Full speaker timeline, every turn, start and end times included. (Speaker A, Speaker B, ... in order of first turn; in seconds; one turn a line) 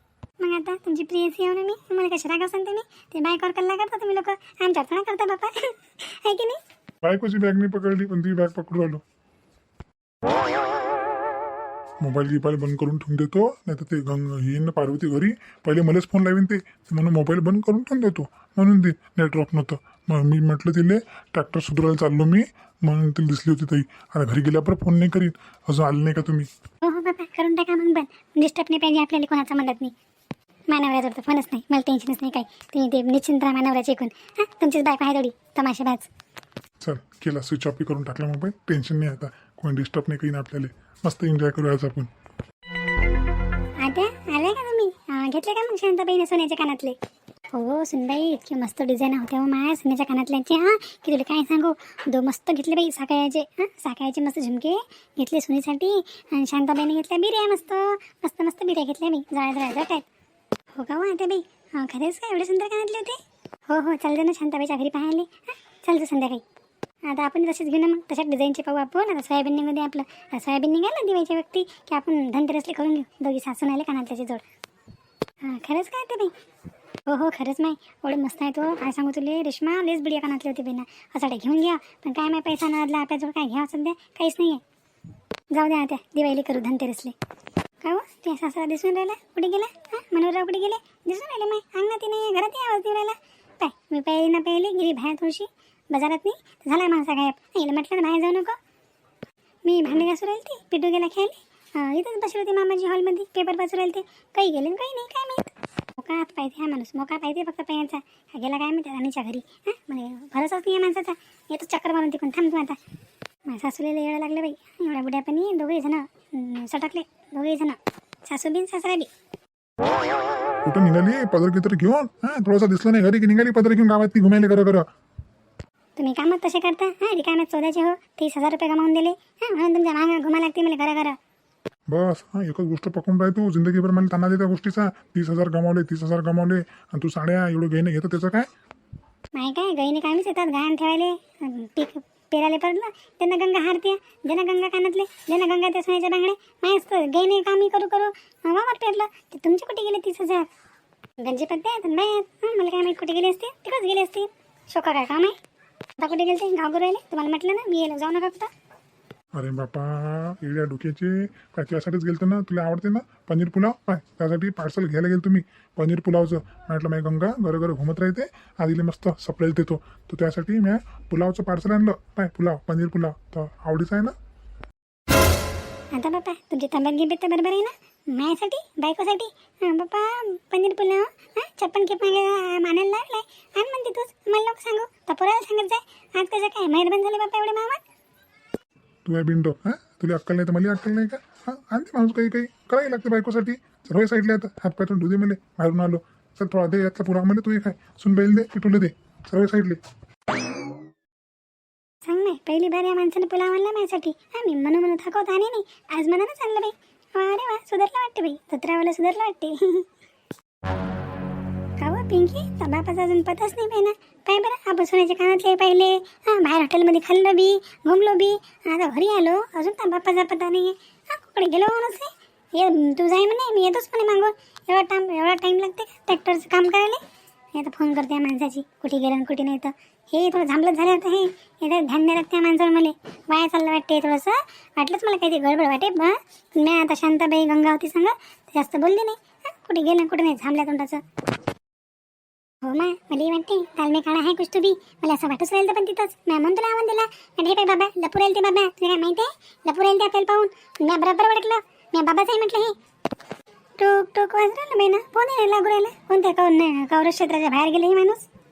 Speaker A: 0.4-6.6
Speaker B: 7.0-9.0
Speaker B: 12.0-26.5
Speaker A: 26.8-29.9
Speaker A: 30.7-36.1
Speaker B: 36.8-42.1
Speaker A: 43.8-47.0
Speaker A: 47.5-60.1
Speaker A: 60.7-66.4
Speaker A: 67.1-74.5
Speaker A: 75.4-76.3
Speaker A: 77.1-84.6
Speaker A: 85.5-87.2
Speaker A: 87.8-98.6
Speaker A: 99.7-112.8
Speaker A: 113.5-119.1
Speaker B: 120.7-124.9
Speaker A: 126.0-131.2
Speaker B: 131.9-138.5
Speaker A: 139.3-150.5
Speaker A: 151.2-155.4
Speaker A: 156.0-158.5
Speaker B: 159.3-174.2
Speaker A: 175.9-187.8
Speaker B: 189.1-199.8
Speaker A: 202.1-209.9
Speaker A: 211.8-227.0
Speaker A: 227.6-241.0
Speaker A: 242.6-252.8
Speaker A: 253.8-258.3